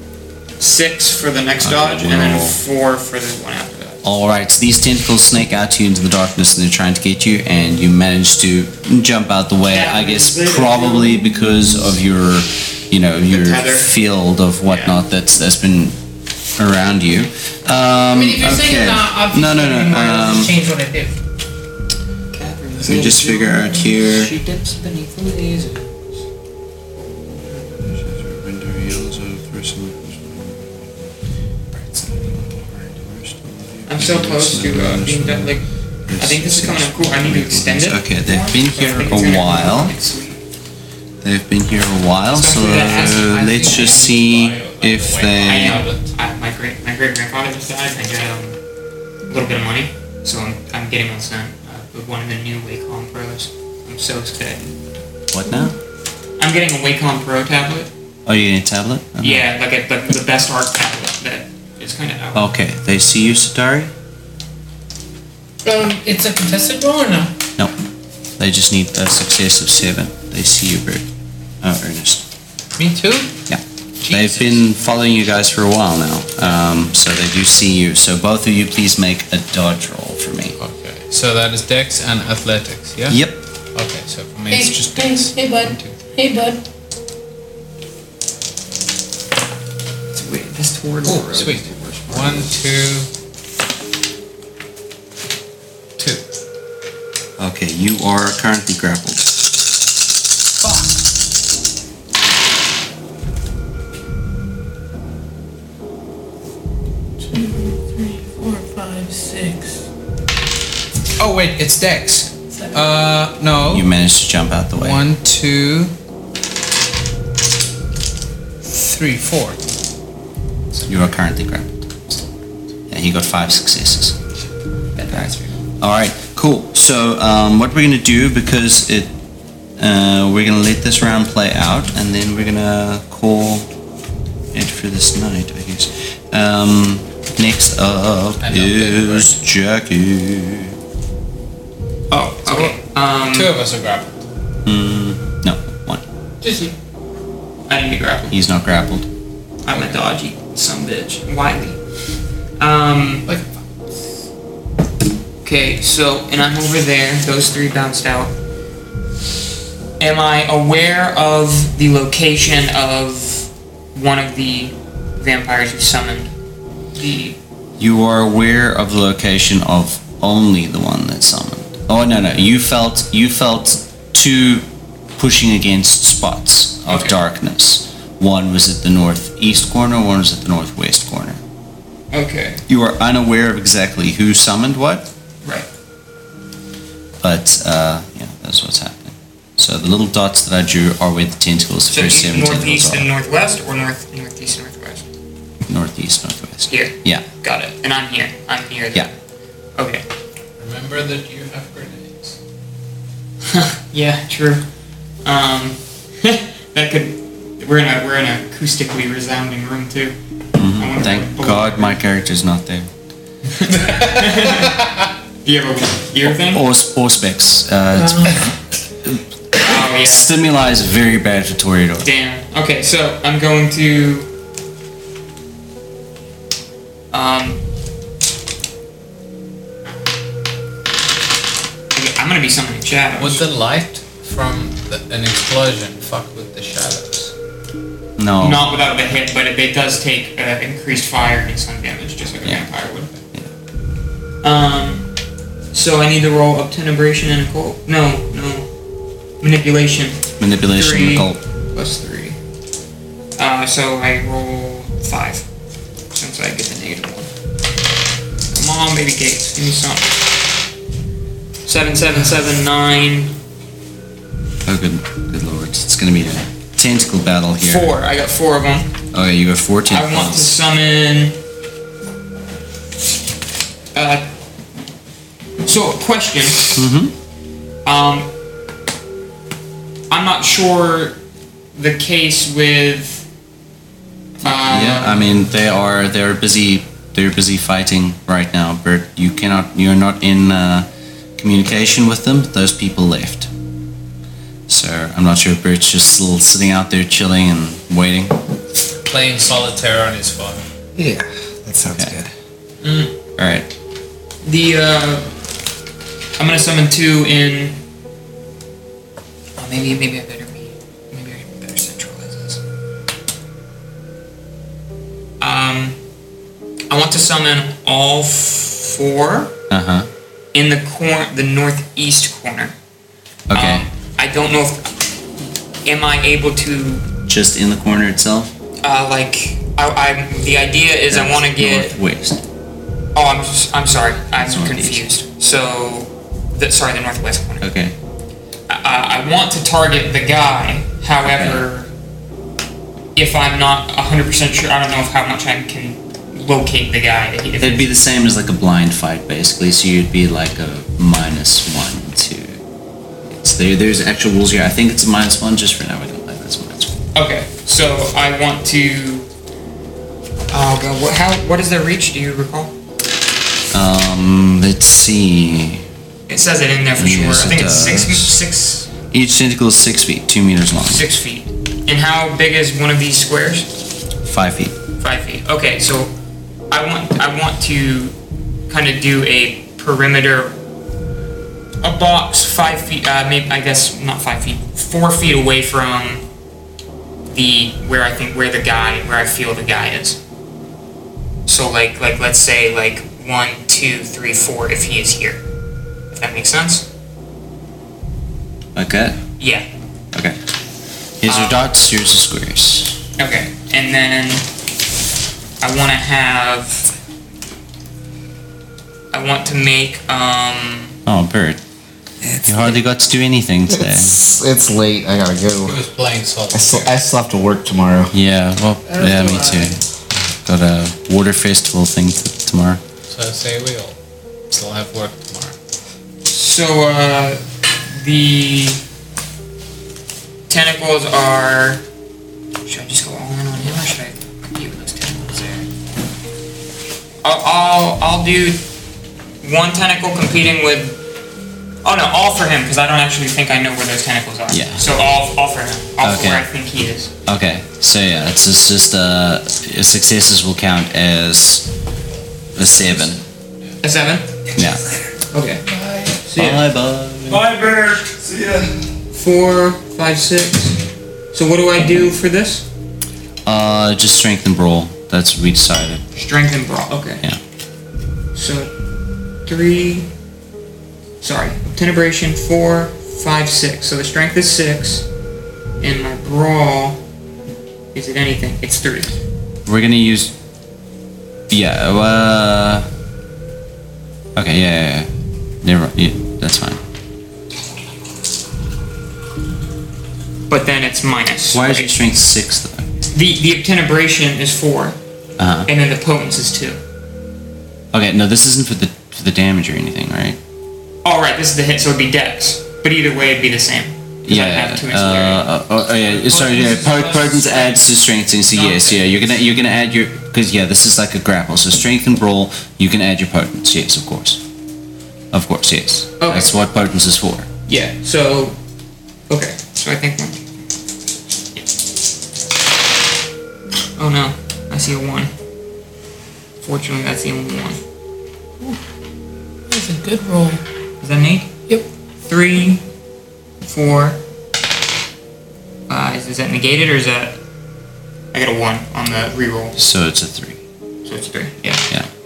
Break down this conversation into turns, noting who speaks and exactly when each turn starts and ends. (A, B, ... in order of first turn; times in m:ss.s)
0:00.6-0:04.0 A
0:01.6-0:02.6 B
0:04.0-0:16.0 B
0:09.7-0:11.3 A
0:13.3-0:13.9 A
0:14.7-0:15.0 A
0:16.6-0:20.5 B
0:18.1-0:21.1 C
0:22.3-0:25.9 A
0:22.8-0:24.3 B
0:27.2-0:27.8 A
0:27.8-0:31.1 B
0:32.0-0:35.5 B
0:33.8-0:40.4 A
0:36.1-0:39.9 B
0:41.2-0:45.9 B
0:42.3-0:44.0 A
0:43.0-0:46.1 D
0:45.4-0:48.6 A
0:49.3-0:54.7 A
0:55.3-0:55.7 B
0:56.4-0:57.9 A
0:58.2-0:59.4 B
0:59.2-1:02.5 A
1:02.3-1:03.9 B
1:05.6-1:07.4 C
1:08.4-1:11.0 B
1:11.6-1:12.2 B
1:12.8-1:13.4 D
1:13.5-1:20.6 B
1:14.0-1:14.6 D
1:20.6-1:23.2 D
1:23.1-1:23.4 B
1:23.7-1:26.0 D
1:24.5-1:26.6 C
1:30.1-1:32.5 A
1:31.0-1:33.1 D
1:36.0-1:36.2 D
1:37.4-1:39.3 B
1:40.6-1:40.9 D
1:47.2-1:49.8 C
1:51.2-1:53.9 D
1:52.5-1:52.8 C
1:53.7-1:55.0 B
1:54.8-1:55.9 D
1:58.6-1:59.6 D
2:00.9-2:01.8 B
2:02.9-2:04.2 B
2:05.0-2:05.6 A
2:05.1-2:09.1 B
2:09.8-2:13.7 B
2:14.5-2:20.7 B
2:18.4-2:19.4 D
2:22.1-2:23.5 A
2:22.4-2:22.8 D
2:23.3-2:24.2 D
2:24.6-2:26.0 B
2:26.4-2:26.7 C
2:27.7-2:28.3 A
2:28.3-2:29.1 B
2:29.6-2:32.0 A
2:32.6-2:33.3 A
2:35.4-2:38.3 A
2:40.0-2:46.3 A
2:46.9-2:47.4 A
2:47.8-3:01.4 B
2:56.9-2:57.2 A
3:02.1-3:02.6 A
3:02.7-3:05.1 B
3:07.2-3:13.1 B
3:11.9-3:15.1 A
3:15.7-3:17.2 B
3:16.7-3:19.1 A
3:19.8-3:20.0 A
3:20.6-3:22.4 D
3:23.5-3:24.6 A
3:25.2-3:30.2 A
3:30.6-3:32.9 B
3:30.8-3:32.0 A
3:33.6-3:34.8 A
3:35.4-3:36.6 A
3:36.2-3:42.1 B
3:37.9-3:38.4 C
3:39.6-3:40.3 A
3:42.0-3:44.3 A
3:47.1-3:47.6 A
3:51.9-3:53.4 A
3:53.2-3:57.3 D
3:58.2-3:58.6 B
3:58.4-4:03.1 A
4:04.4-4:05.1 A
4:05.7-4:08.7 A
4:09.4-4:12.4 A
4:10.4-4:11.4 B
4:13.4-4:15.4 A
4:16.1-4:17.3 A
4:18.5-4:20.3 A
4:21.6-4:23.4 A
4:24.6-4:27.9 B
4:27.6-4:29.0 A
4:29.1-4:30.5 B
4:29.9-4:31.4 A
4:33.9-4:34.3 A
4:35.6-4:36.8 A
4:36.8-4:37.1 B
4:37.8-4:38.3 A
4:40.1-4:41.2 A
4:41.7-4:43.3 A
4:44.4-4:45.3 A
4:44.6-4:53.5 B
4:54.7-4:58.4 B
4:59.0-5:00.6 D
5:01.0-5:02.3 E
5:02.8-5:03.1 A
5:03.4-5:03.7 B
5:04.4-5:05.3 A
5:06.4-5:07.8 A
5:09.6-5:12.6 A
5:15.4-5:16.0 A
5:16.9-5:19.5 A
5:19.7-5:20.1 B
5:20.5-5:22.7 A
5:23.5-5:23.8 B
5:23.5-5:25.1 A
5:25.8-5:27.0 A
5:27.3-5:28.5 B
5:28.8-5:31.9 A
5:31.1-5:32.4 B
5:33.1-5:37.6 A
5:34.4-5:35.1 B
5:37.6-5:37.9 B
5:38.7-5:41.9 A
5:41.4-5:41.6 B
5:43.2-5:47.9 A
5:47.6-5:52.6 B
5:53.3-5:57.0 B
5:57.1-5:59.3 A
6:00.5-6:02.7 A
6:03.7-6:05.8 B
6:06.3-6:08.9 A
6:07.0-6:08.3 B
6:09.1-6:11.0 B
6:10.8-6:13.7 A
6:14.2-6:14.7 B
6:15.0-6:16.1 A
6:16.7-6:18.1 A
6:18.7-6:20.5 A
6:21.8-6:26.2 A
6:27.3-6:30.2 A
6:31.4-6:35.4 A
6:36.1-6:36.8 A
6:38.7-6:39.2 B
6:39.4-6:39.6 A
6:41.2-6:43.0 B
6:41.2-6:41.7 A
6:43.2-6:44.5 A
6:45.6-6:46.9 A
6:49.1-6:51.0 A
6:51.0-6:51.6 B
6:52.2-6:52.7 E
6:52.4-6:54.2 B
6:53.7-6:55.7 E
6:55.6-6:56.9 D
6:56.5-6:58.1 E
6:58.1-7:02.8 B
6:58.8-6:59.8 C
7:03.1-7:04.0 D
7:04.5-7:05.5 D
7:06.3-7:07.4 A
7:08.0-7:08.8 A
7:10.5-7:11.8 A
7:12.6-7:15.7 A
7:17.2-7:18.6 A
7:19.4-7:21.0 A
7:21.8-7:27.1 A
7:24.5-7:24.8 B
7:26.0-7:26.4 B
7:27.2-7:31.7 B
7:32.5-7:33.2 B
7:33.8-7:34.5 A
7:34.5-7:34.8 B
7:35.3-7:35.6 A
7:36.2-7:36.6 A
7:36.4-7:37.5 B
7:37.3-7:40.8 A
7:41.3-7:42.6 A
7:43.4-7:46.0 B
7:46.1-7:47.2 A
7:48.3-7:48.7 A
7:49.4-7:50.1 A
7:51.2-7:55.0 A
7:55.8-7:57.0 A
7:57.9-7:59.2 A
7:59.6-8:00.3 B
8:01.5-8:02.9 B
8:04.4-8:05.1 B
8:05.6-8:06.8 B
8:10.5-8:12.0 A
8:11.5-8:12.9 B
8:13.1-8:15.0 A
8:15.4-8:15.7 B
8:15.7-8:16.8 A
8:17.9-8:20.4 B
8:21.0-8:29.2 A
8:24.3-8:34.4 B
8:35.3-8:37.5 B
8:36.2-8:36.5 A
8:37.7-8:38.6 A
8:39.3-8:40.4 A
8:44.0-8:45.3 A
8:46.6-8:47.8 A
8:49.7-8:50.6 C
8:51.0-8:51.5 A
8:52.2-8:52.8 A
8:53.6-8:54.2 A
8:55.9-8:57.4 A
8:58.3-8:59.8 A
8:59.8-9:00.6 B
9:01.0-9:01.9 A